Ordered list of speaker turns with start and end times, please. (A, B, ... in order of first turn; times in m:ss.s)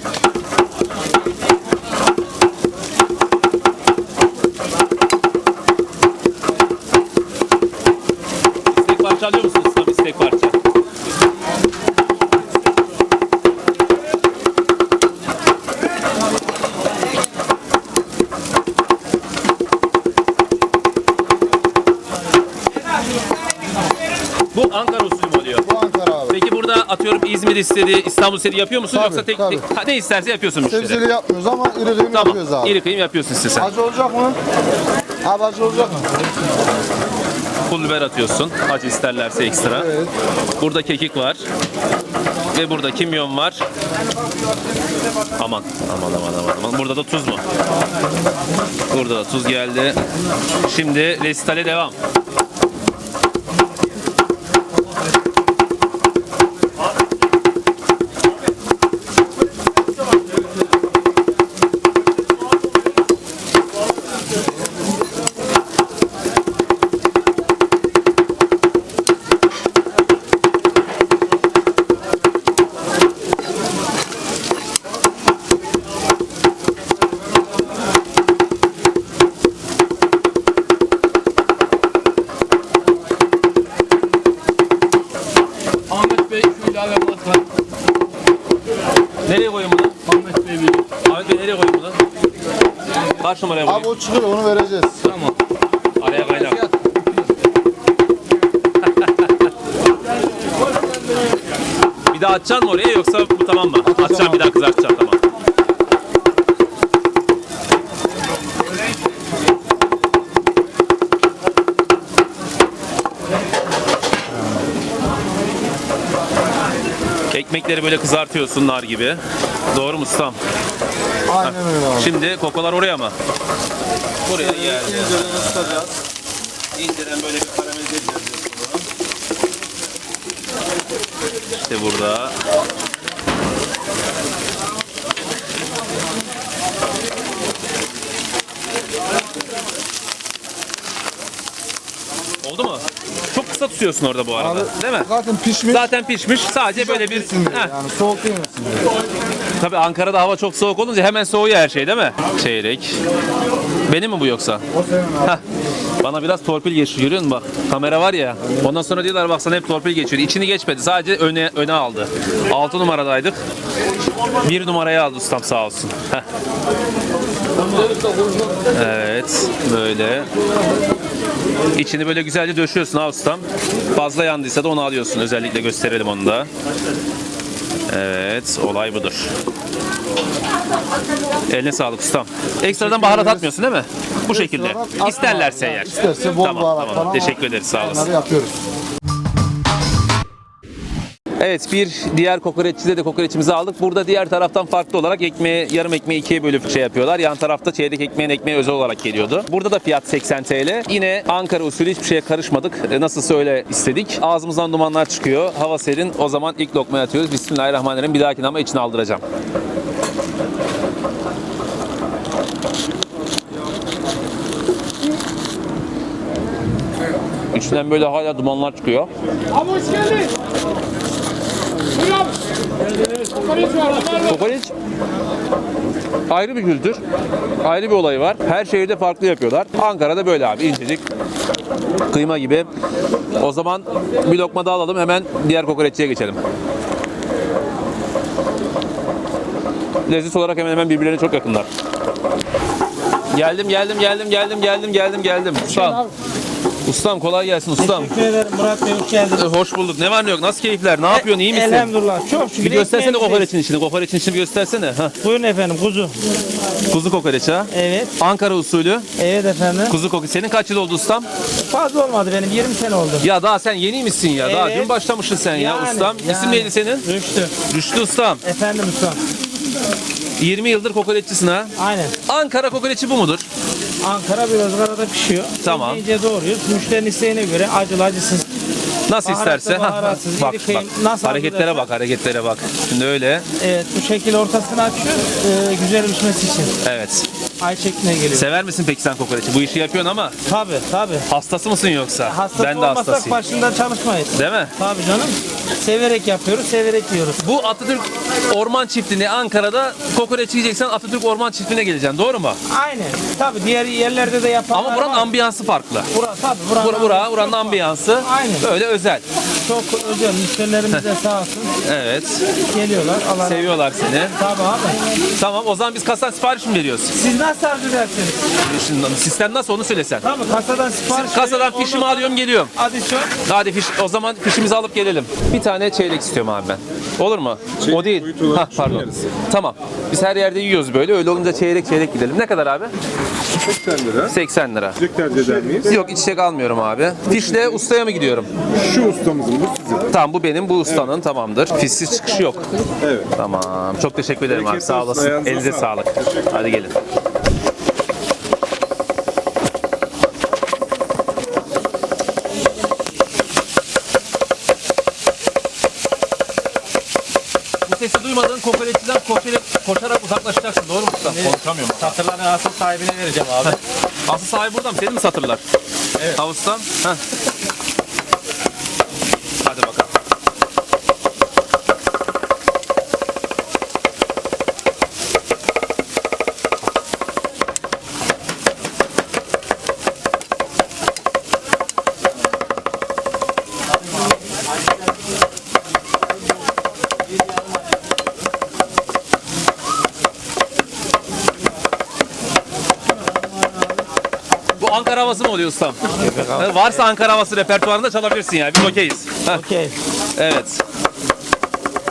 0:08.7-0:10.6 A
0:24.5-0:31.1 A
0:25.7-0:26.3 B
0:29.2-0:29.6 B
0:30.9-0:32.7 B
0:32.1-0:33.8 A
0:33.8-0:34.4 B
0:35.2-0:36.1 B
0:37.7-0:40.0 A
0:40.6-0:41.4 A
0:42.5-0:43.6 A
0:45.4-0:47.4 A
0:48.9-0:50.0 A
0:50.6-0:51.9 A
1:25.9-1:27.4 A
1:29.2-1:30.0 A
1:30.3-1:30.7 C
1:31.0-1:32.0 A
1:33.2-1:34.0 A
1:33.9-1:35.0 B
1:35.0-1:35.3 A
1:36.0-1:36.7 A
1:38.9-1:39.3 A
1:42.1-1:45.2 A
1:57.3-1:59.2 A
1:59.7-2:00.4 A
2:01.3-2:03.1 A
2:04.3-2:05.9 A
2:06.7-2:08.8 A
2:11.6-2:12.3 A
2:22.4-2:27.8 A
2:25.1-2:25.8 B
2:27.6-2:28.9 B
2:29.6-2:33.0 A
2:33.9-2:34.6 A
2:34.8-2:35.2 B
2:36.0-2:43.4 A
2:44.4-2:46.2 A
2:48.7-2:50.3 A
2:51.8-2:56.5 A
2:57.9-2:59.3 A
3:01.5-3:08.2 A
3:04.7-3:07.2 B
3:08.0-3:08.6 B
3:11.4-3:29.2 A
3:37.5-3:39.1 A
3:44.3-3:44.7 A
3:46.3-3:47.0 A
3:47.6-3:51.0 A
3:52.1-3:52.7 A
3:53.4-3:56.4 A
4:00.1-4:01.7 A
4:03.3-4:06.0 A
4:05.7-4:06.1 C
4:06.8-4:08.1 A
4:07.8-4:09.5 C
4:09.4-4:11.9 A
4:11.1-4:13.5 C
4:12.6-4:15.1 A
4:15.2-4:16.2 C
4:16.9-4:19.1 A
4:17.7-4:18.2 C
4:19.2-4:20.0 C
4:19.9-4:21.3 A
4:21.7-4:23.3 C
4:23.2-4:27.1 A
4:24.4-4:24.9 C
4:25.5-4:27.5 C
4:27.7-4:28.4 A
4:28.4-4:29.2 C
4:30.4-4:31.7 A
4:31.8-4:32.2 C
4:32.3-4:33.5 A
4:34.0-4:38.5 C
4:35.6-4:36.0 A
4:39.1-4:43.4 A
4:39.2-4:41.9 C
4:43.6-4:46.7 C
4:46.8-4:47.3 A
4:47.6-4:48.5 C
4:48.3-4:50.4 A
4:50.5-4:51.3 C
4:51.3-4:53.4 A
4:52.2-4:57.4 C
4:54.4-4:54.7 A
4:57.4-5:02.6 A
5:02.7-5:05.3 C
5:04.7-5:06.1 A
5:06.1-5:08.7 C
5:06.8-5:09.2 A
5:09.6-5:11.8 C
5:11.8-5:12.4 A
5:12.7-5:13.8 C
5:13.4-5:14.4 A
5:14.4-5:15.0 C
5:15.4-5:17.1 A
5:17.2-5:18.5 C
5:18.7-5:20.3 A
5:20.2-5:23.3 C
5:21.1-5:22.7 A
5:23.5-5:32.9 A
5:27.8-5:29.2 D
5:33.6-5:34.4 D
5:34.3-5:35.0 A
5:35.0-5:36.0 D
5:35.9-5:38.5 A
5:38.7-5:40.1 D
5:40.1-5:42.7 A
5:43.0-5:43.3 D
5:43.4-5:46.9 A
5:44.5-5:46.5 D
5:57.9-6:02.2 A
6:01.3-6:03.8 C
6:04.3-6:05.6 A
6:06.4-6:07.2 A
6:09.6-6:10.1 A
6:34.8-6:39.6 A
6:36.1-6:36.9 C
6:39.5-6:40.0 C
6:40.4-6:40.8 A